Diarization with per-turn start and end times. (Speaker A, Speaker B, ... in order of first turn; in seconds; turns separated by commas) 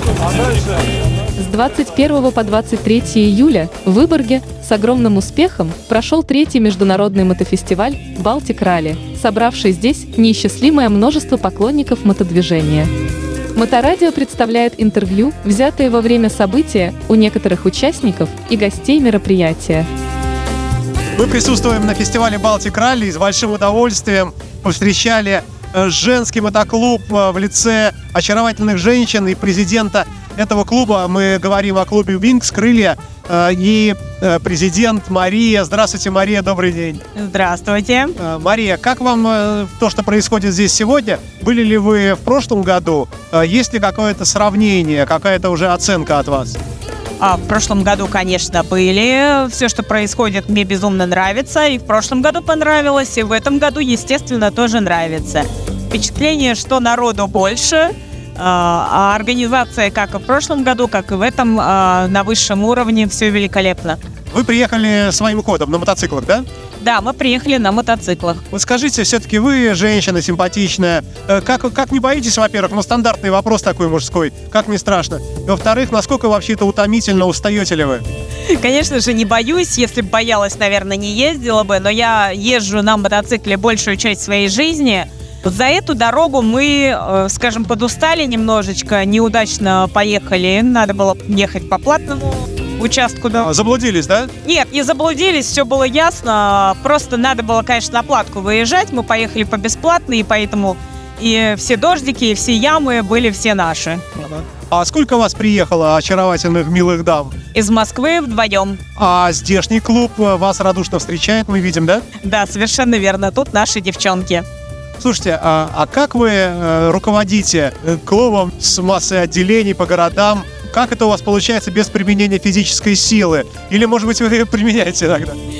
Speaker A: 1.4-12.9, Speaker A: 13.6-19.9, Speaker B: 21.1-37.0, Speaker C: 37.1-38.1, Speaker B: 38.2-46.6, Speaker C: 47.2-64.0, Speaker B: 64.3-66.4, Speaker C: 66.8-68.4, Speaker B: 68.5-78.0, Speaker C: 78.5-93.5, Speaker B: 93.4-94.3, Speaker C: 94.4-104.3, Speaker B: 104.3-107.3, Speaker C: 107.5-108.8, Speaker B: 109.0-112.0, Speaker C: 112.2-114.5, Speaker B: 115.0-125.4